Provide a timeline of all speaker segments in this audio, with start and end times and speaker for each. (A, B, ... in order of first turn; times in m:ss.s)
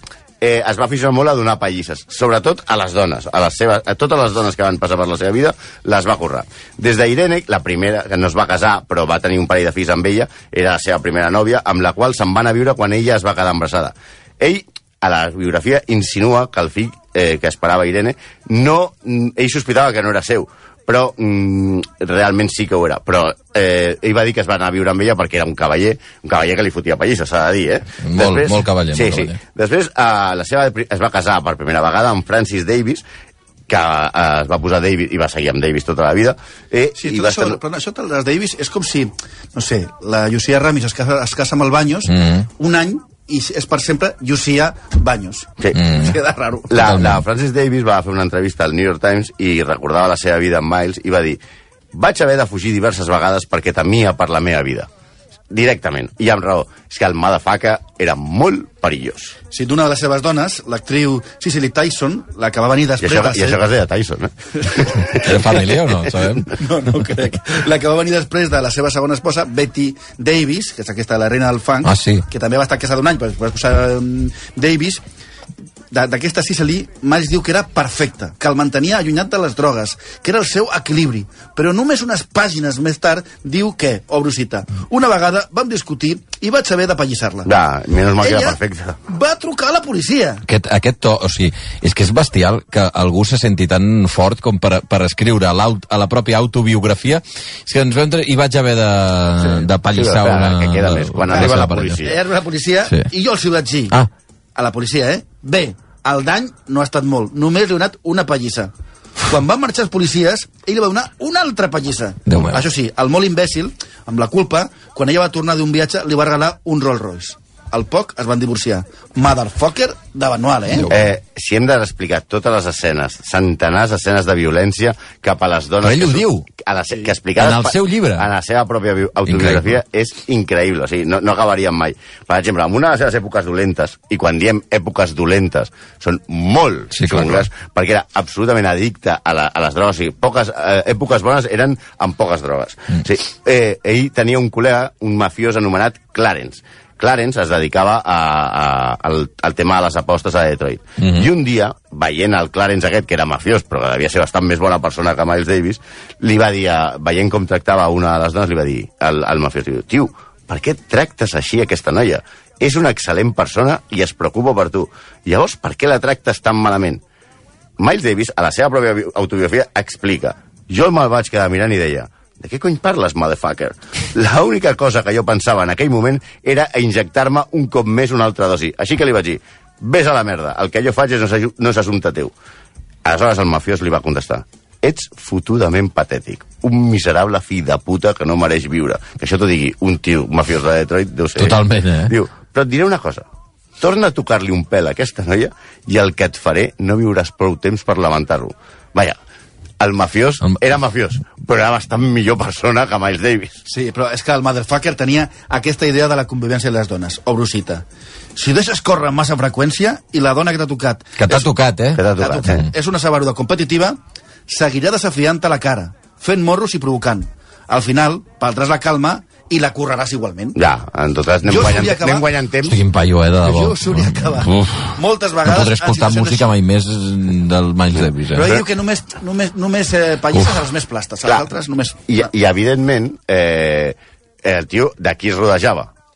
0:00.4-0:33.0 A
0:28.0-0:29.4 B
0:33.7-0:37.6 A
0:37.0-0:46.9 C
0:42.1-0:42.4 B
0:45.8-0:46.1 B
0:46.7-0:51.4 A
0:46.8-0:47.2 B
0:51.9-0:54.9 A
0:55.5-0:59.4 A
0:59.5-1:03.6 C
1:03.0-1:06.3 A
1:05.1-1:06.5 B
1:06.5-1:15.0 C
1:11.8-1:12.2 B
1:15.9-1:27.5 C
1:27.4-1:29.0 A
1:28.2-1:30.4 C
1:30.5-1:42.0 B
1:39.9-1:42.2 A
1:41.3-1:44.0 C
1:44.6-1:48.7 C
1:49.2-2:00.9 C
1:52.3-1:52.6 B
2:00.8-2:01.0 B
2:00.9-2:47.0 A
2:05.8-2:06.5 B
2:07.4-2:08.3 B
2:09.3-2:09.7 B
2:16.9-2:17.4 B
2:31.0-2:31.2 B
2:47.8-3:02.3 A
3:03.0-3:13.2 A
3:11.4-3:12.1 B
3:13.8-3:19.2 A
3:19.8-3:23.6 A
3:23.7-3:27.8 C
3:28.4-3:31.4 C
3:31.2-3:32.0 B
3:31.9-3:32.6 A
3:32.2-3:40.6 C
3:40.5-3:42.8 A
3:41.4-3:42.3 C
3:42.6-3:48.5 B
3:43.4-3:46.5 C
3:48.3-3:52.2 C
3:52.1-3:55.9 A